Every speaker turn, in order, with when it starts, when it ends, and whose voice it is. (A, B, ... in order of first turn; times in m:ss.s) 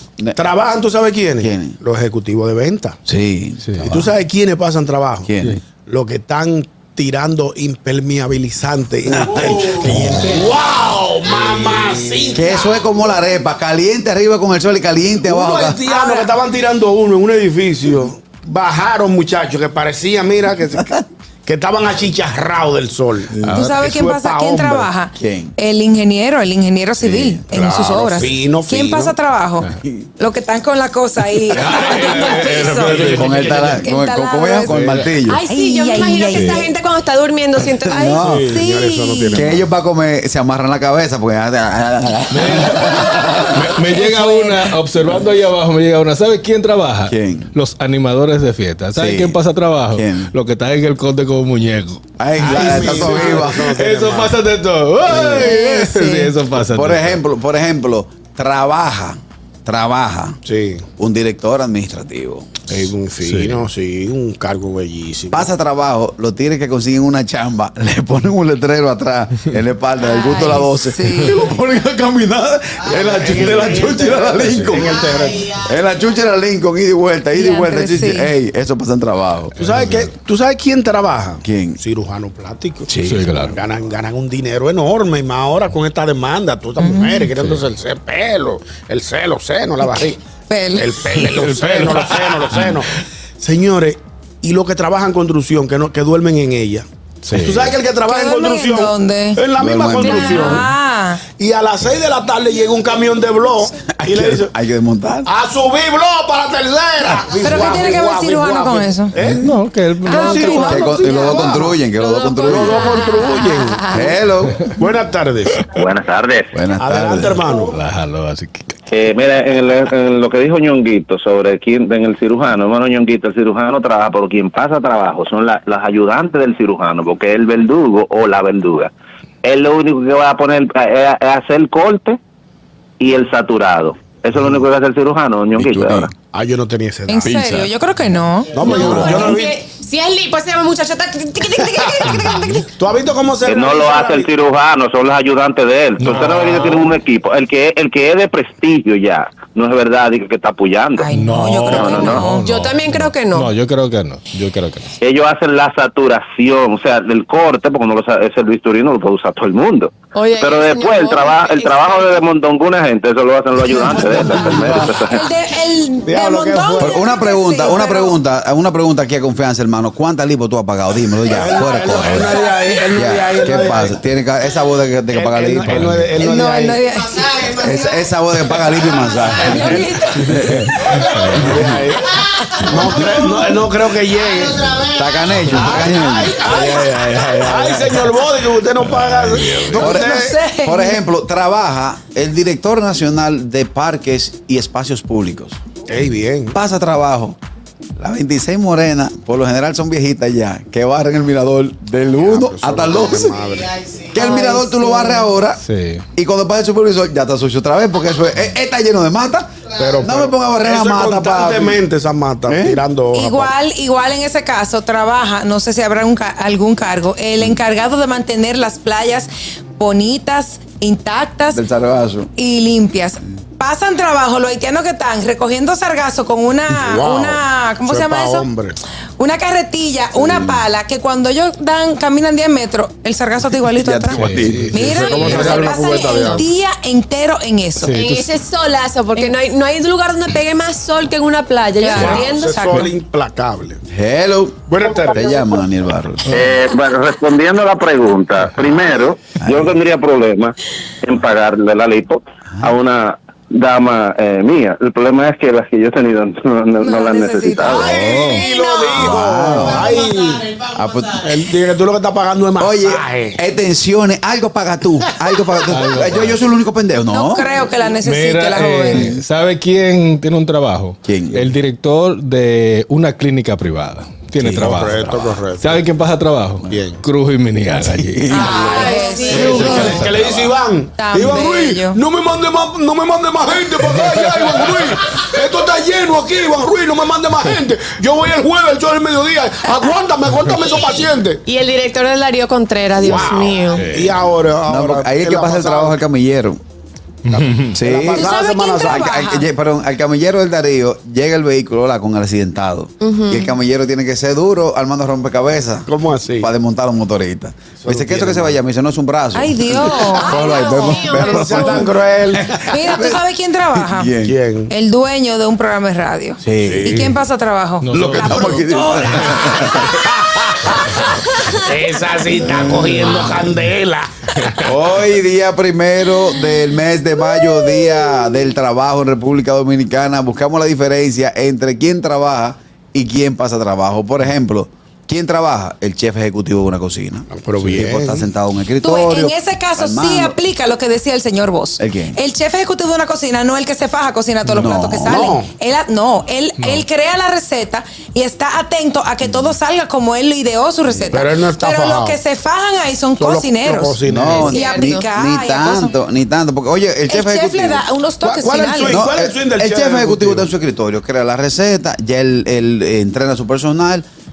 0:00.4-0:03.0 A
0:01.4-0:01.8 B
0:03.1-0:04.1 B
0:03.9-0:05.3 A
0:05.3-0:05.6 B
0:05.9-0:12.8 A
0:09.2-0:10.3 B
0:09.8-0:10.4 C
0:12.4-0:15.8 B
0:15.2-0:20.9 A
0:15.9-0:16.3 D
0:21.5-0:24.9 A
0:23.4-0:23.8 C
0:23.5-0:33.0 D
0:25.2-0:25.6 B
0:27.0-0:27.4 B
0:27.5-0:29.2 A
0:29.8-0:30.1 B
0:31.5-0:33.9 C
0:32.9-0:35.4 B
0:33.8-0:34.7 D
0:34.6-0:35.2 C
0:35.2-0:38.2 E
0:35.5-0:36.6 D
0:36.3-0:36.7 C
0:37.8-0:38.6 B
0:38.1-0:39.7 A
0:38.5-0:39.4 D
0:39.3-0:43.8 B
0:42.3-0:57.2 C
0:43.9-0:44.7 D
0:47.1-0:47.5 B
0:49.0-0:49.4 B
0:49.9-0:50.3 B
0:52.2-0:53.7 B
0:52.4-0:54.4 A
0:55.1-0:55.4 B
0:55.5-0:56.4 D
0:56.6-1:00.4 B
1:00.5-1:00.8 A
1:01.0-1:02.6 B
1:02.7-1:05.5 A
1:03.2-1:03.6 C
1:05.3-1:19.6 B
1:10.0-1:11.3 D
1:12.9-1:15.6 A
1:17.3-1:18.3 D
1:19.6-1:20.1 C
1:19.6-1:22.9 A
1:21.4-1:21.8 B
1:22.9-1:23.6 C
1:23.4-1:30.2 A
1:26.8-1:27.3 D
1:27.4-1:27.7 C
1:30.5-1:30.9 D
1:30.7-1:40.7 A
1:31.1-1:32.8 C
1:37.2-1:37.8 C
1:38.0-1:39.5 D
1:39.6-1:40.6 B
1:40.0-1:41.2 D
1:41.4-1:44.5 A
1:43.9-1:45.3 B
1:45.3-1:49.5 A
1:47.4-1:49.2 D
1:49.2-1:50.7 C
1:50.0-1:51.3 D
1:50.1-1:51.8 A
1:50.6-1:53.0 B
1:52.0-1:52.5 E
1:52.4-1:54.2 A
1:53.2-1:53.7 D
1:53.9-1:54.6 B
1:54.8-1:55.7 A
1:55.8-1:56.5 F
1:56.5-1:57.5 B
1:56.8-1:57.8 A
1:57.7-1:58.8 C
1:58.9-2:08.9 F
2:09.4-2:12.2 F
2:13.0-2:16.1 F
2:15.6-2:16.1 B
2:16.3-2:17.4 A
2:17.1-2:18.6 D
2:17.2-2:17.7 B
2:18.5-2:19.6 A
2:18.6-2:22.6 E
2:18.7-2:19.2 B
2:21.6-2:24.3 A
2:22.1-2:22.6 C
2:23.4-2:31.1 F
2:26.0-2:26.9 C
2:31.0-2:32.4 D
2:31.1-2:34.9 C
2:31.6-2:33.5 E
2:31.7-2:32.3 F
2:35.0-2:45.3 F
2:40.1-2:42.2 E
2:44.4-2:44.9 B
2:44.5-2:44.8 A
2:45.1-2:48.2 D
2:46.0-2:47.0 A
2:46.8-2:52.4 B
2:51.3-2:54.0 A
2:53.0-2:56.1 B
2:55.1-2:56.8 A
2:55.6-2:56.2 C
2:56.2-2:57.3 D
2:57.4-3:01.8 B
2:59.5-2:59.7 A
2:59.5-3:00.1 D
3:00.2-3:01.5 C
3:01.3-3:04.9 A
3:04.8-3:06.9 B
3:05.6-3:10.4 A
3:06.9-3:07.8 C
3:08.8-3:09.9 C
3:09.7-3:15.6 B
3:09.9-3:11.0 D
3:15.9-3:16.6 A
3:16.5-3:17.4 B
3:18.0-3:23.4 B
3:22.2-3:24.1 A
3:24.1-3:25.6 B
3:24.2-3:25.3 D
3:25.6-3:26.0 C
3:26.2-3:31.8 B
3:29.8-3:33.5 A
3:32.5-3:32.8 B
3:33.1-3:41.6 D
3:41.5-3:42.3 B
3:42.4-3:48.5 D
3:46.7-3:48.8 A
3:49.2-3:54.2 D
3:50.2-3:50.6 B
3:53.7-3:55.3 B
3:54.1-3:55.6 C
3:54.7-3:57.9 D
3:55.0-3:56.4 A
3:57.8-3:58.4 C
3:57.9-4:02.8 E
4:01.8-4:02.9 D
4:01.9-4:03.8 A
4:03.9-4:06.5 B
4:04.7-4:05.3 A
4:06.3-4:18.1 F
4:09.4-4:09.8 B
4:16.8-4:17.8 D
4:17.6-4:20.6 A
4:17.8-4:19.0 E
4:17.8-4:18.5 C
4:18.9-4:20.0 B
4:20.6-4:21.3 B
4:21.2-4:23.4 A
4:22.6-4:27.5 B
4:25.7-4:26.4 C
4:27.1-4:29.0 D
4:27.9-4:38.8 C
4:28.9-4:29.2 B
4:31.0-4:31.5 B
4:34.4-4:35.2 B
4:34.6-4:35.8 A
4:36.6-4:37.0 A
4:37.8-4:38.7 B
4:38.3-4:40.0 D
4:38.3-4:39.5 E
4:38.4-4:51.4 A
4:39.3-4:40.2 B
4:39.4-4:40.5 C
4:41.0-4:42.0 D
4:50.3-4:50.6 C
4:51.4-4:53.9 E
4:53.0-4:56.0 A
4:53.0-4:54.3 C
4:54.7-4:56.6 B
4:57.3-4:57.8 C
4:57.7-5:13.2 B
4:57.8-4:59.1 A
4:58.1-4:59.5 D
5:03.0-5:03.6 E
5:05.9-5:06.5 A
5:07.8-5:08.6 A
5:09.3-5:10.3 D
5:09.8-5:12.6 A
5:10.2-5:11.9 E
5:12.7-5:14.1 D
5:13.7-5:14.3 B
5:14.2-5:14.7 A
5:14.7-5:19.1 D
5:16.4-5:17.1 B
5:16.6-5:17.0 A
5:17.8-5:18.6 C
5:18.0-5:20.0 B
5:18.0-5:21.1 A
5:19.1-5:19.4 C
5:21.6-5:24.2 A
5:22.3-5:23.4 B
5:24.6-5:40.4 B
5:37.3-5:38.2 A
5:38.8-5:54.1 D
5:41.8-5:42.2 B
5:44.6-5:45.3 B
5:45.1-5:45.5 A
5:46.6-5:46.9 C
5:50.9-5:51.2 B
5:51.1-5:52.2 A
5:53.2-5:54.7 A
5:54.0-5:57.9 B
5:54.3-5:55.1 E
5:54.6-5:56.0 D
5:57.1-5:59.0 D
5:58.2-6:00.5 A
5:58.9-6:04.1 B